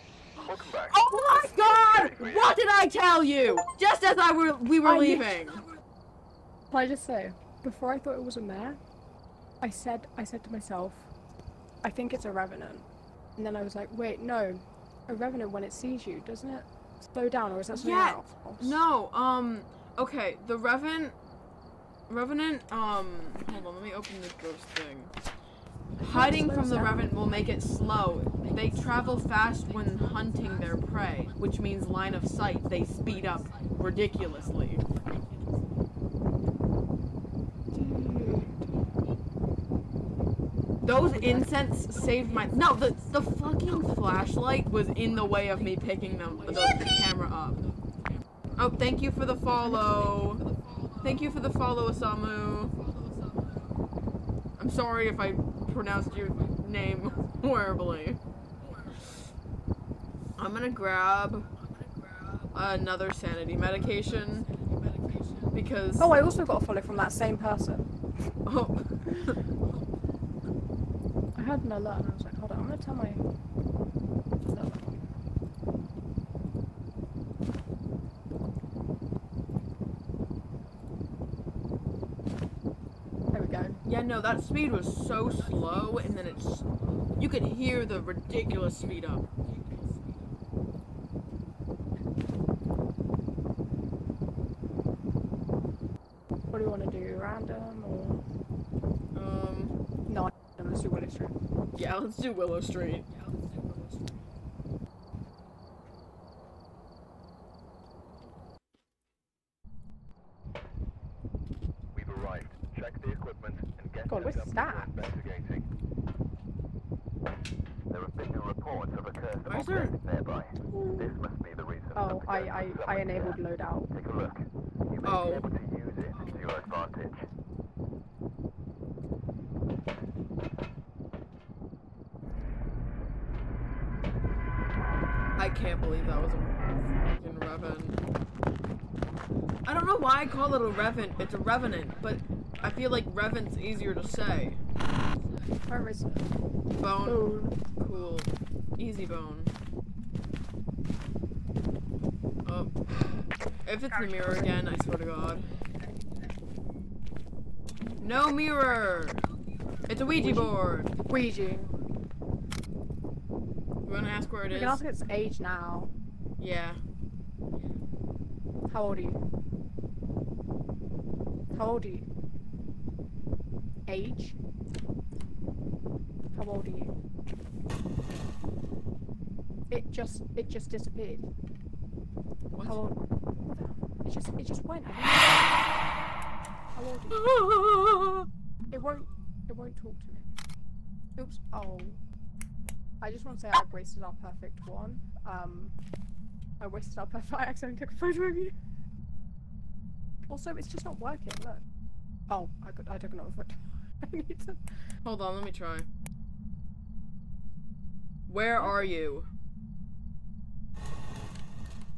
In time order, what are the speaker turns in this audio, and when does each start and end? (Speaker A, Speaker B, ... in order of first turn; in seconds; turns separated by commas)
Speaker A: 0.4-2.6, Speaker B: 0.8-5.6, Speaker C: 4.8-5.5, Speaker C: 6.7-8.8, Speaker C: 9.6-11.1, Speaker C: 11.8-12.8, Speaker C: 13.4-18.8, Speaker B: 17.7-21.1, Speaker B: 22.1-25.1, Speaker C: 26.0-27.0, Speaker B: 26.0-34.8, Speaker C: 37.7-38.7, Speaker B: 40.8-47.6, Speaker C: 41.1-41.5, Speaker B: 48.5-52.8, Speaker B: 54.6-58.2, Speaker B: 60.4-61.5, Speaker B: 62.5-64.5, Speaker B: 65.5-66.4, Speaker C: 66.0-67.9, Speaker B: 68.4-69.4, Speaker C: 71.3-73.2, Speaker C: 74.4-75.0, Speaker C: 83.3-83.8, Speaker B: 83.8-89.3, Speaker C: 96.5-98.2, Speaker B: 99.1-99.8, Speaker C: 100.1-101.3, Speaker B: 101.7-103.1, Speaker A: 111.9-115.7, Speaker C: 114.1-115.1, Speaker A: 117.9-127.3, Speaker B: 119.5-119.9, Speaker C: 120.7-121.1, Speaker C: 121.9-123.9, Speaker B: 125.0-125.5, Speaker B: 135.4-138.0, Speaker B: 139.7-144.6, Speaker C: 145.7-146.3, Speaker B: 146.8-149.5, Speaker C: 147.0-147.6, Speaker B: 152.4-152.7, Speaker B: 153.6-155.5, Speaker C: 153.9-154.8, Speaker B: 158.0-159.2, Speaker B: 159.9-160.9, Speaker C: 160.1-161.8, Speaker B: 163.8-164.8, Speaker C: 164.5-165.9, Speaker B: 166.4-166.8, Speaker C: 168.7-169.2, Speaker C: 171.5-172.1, Speaker C: 173.9-174.4, Speaker C: 176.3-176.9, Speaker C: 179.7-181.3, Speaker B: 182.5-182.8, Speaker C: 182.6-185.6, Speaker C: 186.7-187.4, Speaker B: 187.1-188.3, Speaker C: 188.7-190.3, Speaker C: 191.2-192.0, Speaker C: 193.0-195.7, Speaker C: 196.6-198.5, Speaker C: 200.3-201.6, Speaker C: 202.3-204.6, Speaker B: 205.0-205.9, Speaker B: 208.3-209.3, Speaker C: 208.6-209.0